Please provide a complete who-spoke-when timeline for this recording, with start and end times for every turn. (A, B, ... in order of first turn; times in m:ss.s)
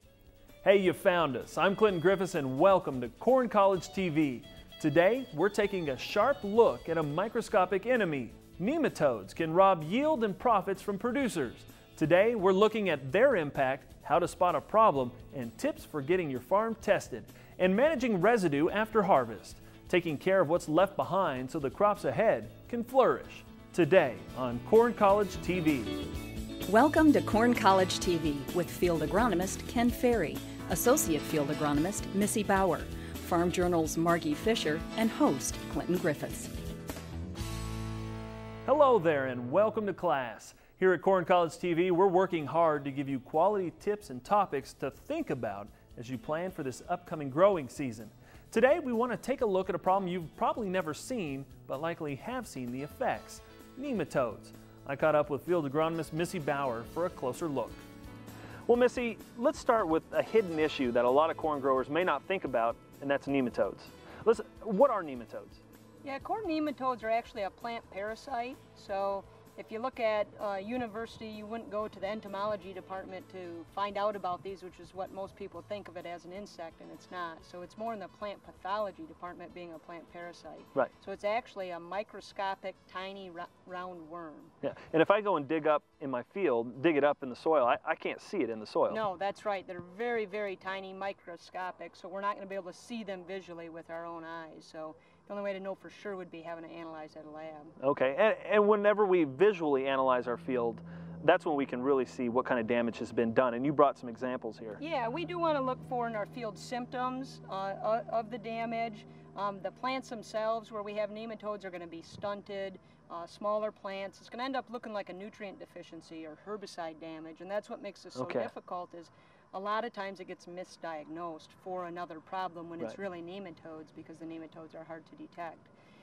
0:00.6-0:26.0 A
0:26.6-0:36.5 B
0:38.6-0:57.8 A
0:58.7-1:05.6 A
1:06.0-1:24.5 C
1:24.6-1:29.0 A
1:28.9-1:37.7 C
1:37.8-1:44.8 A
1:44.8-2:05.7 C
1:58.2-1:58.5 A